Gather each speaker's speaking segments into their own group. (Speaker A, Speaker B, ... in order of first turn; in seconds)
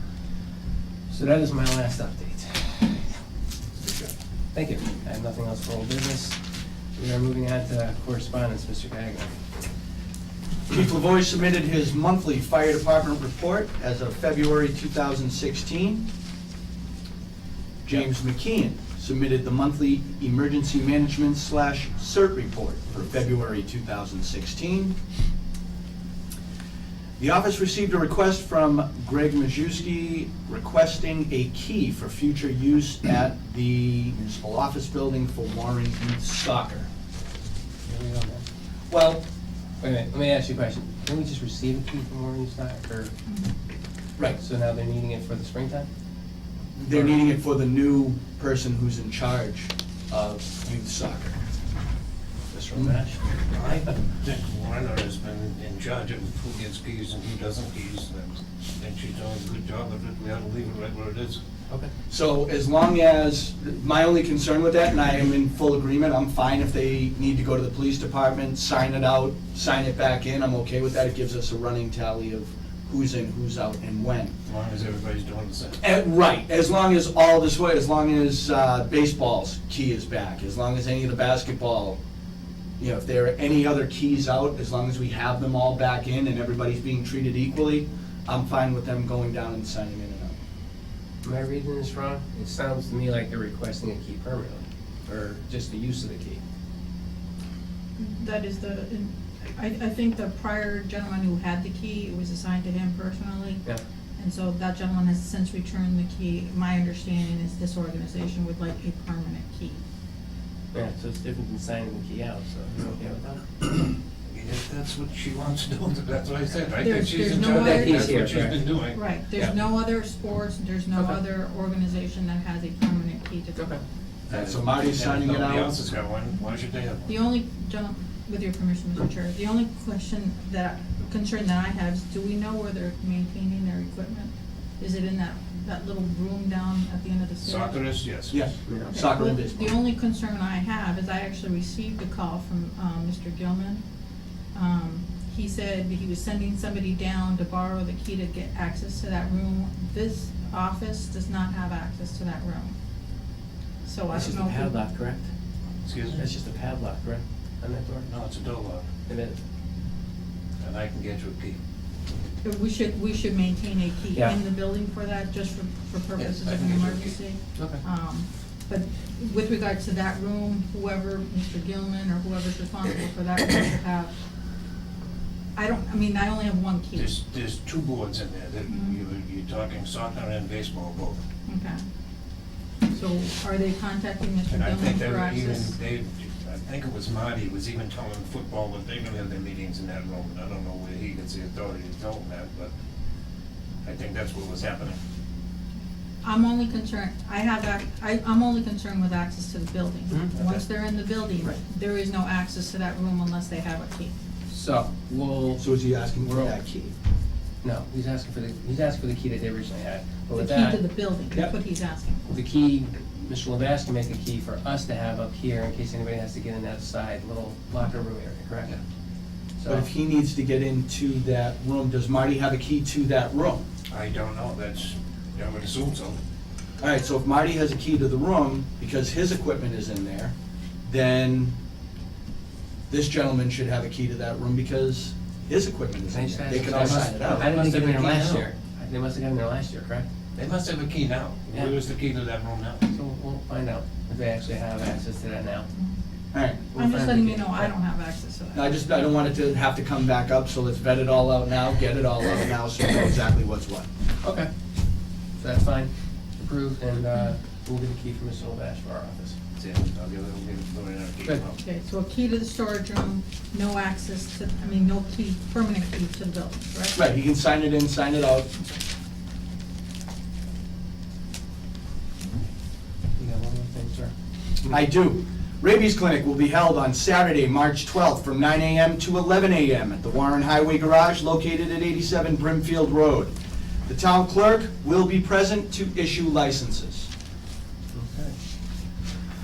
Speaker A: 1.1-3.1, 4.5-6.4, 7.0-9.3, 37.9-38.4, 39.8-43.1, 44.4-45.9, 52.7-53.2, 91.2-96.4, 110.7-113.4, 117.4-118.6, 123.5-123.8, 138.7-138.9, 154.1-155.3, 156.1-158.1, 159.1-159.4, 204.5-205.6, 206.2-206.6, 207.6-210.8, 212.3-218.8, 219.6-219.9, 236.1-240.1, 242.9-245.7, 246.7-247.7, 254.2-254.5, 255.4-259.4, 273.1-274.1, 287.9-288.3
Speaker B: 3.8-4.1, 10.7-16.1, 17.8-24.9, 27.2-36.9, 38.9-39.2, 46.7-51.4, 52.5-53.0, 62.1-74.3, 75.8-82.0, 82.8-90.3, 124.3-125.7, 138.3-139.7, 205.6-206.9, 219.7-223.6, 226.8-230.3, 230.8-231.5, 232.9-237.5, 246.3-246.7, 248.5-253.9, 266.9-268.6, 274.7-283.3, 283.9-287.1
Speaker C: 53.5-61.4, 74.5-75.8, 114.3-119.0, 124.3-127.1, 137.4-138.5, 155.8-156.2, 158.1-158.8, 160.6-161.6, 166.2-167.2, 176.9-181.2, 184.5-192.7, 193.8-195.0, 223.9-226.2, 236.5-238.5, 240.3-242.9, 259.6-261.6
Speaker D: 98.0-103.6, 104.2-109.8, 116.8-118.1, 118.9-123.7, 127.1-137.8, 138.9-143.8, 144.5-152.8, 153.8-154.8, 162.4-174.1, 175.5-177.1, 178.7-179.0, 181.4-181.8, 182.9-185.7, 196.2-204.2, 210.3-212.2, 246.7-248.8, 261.6-266.9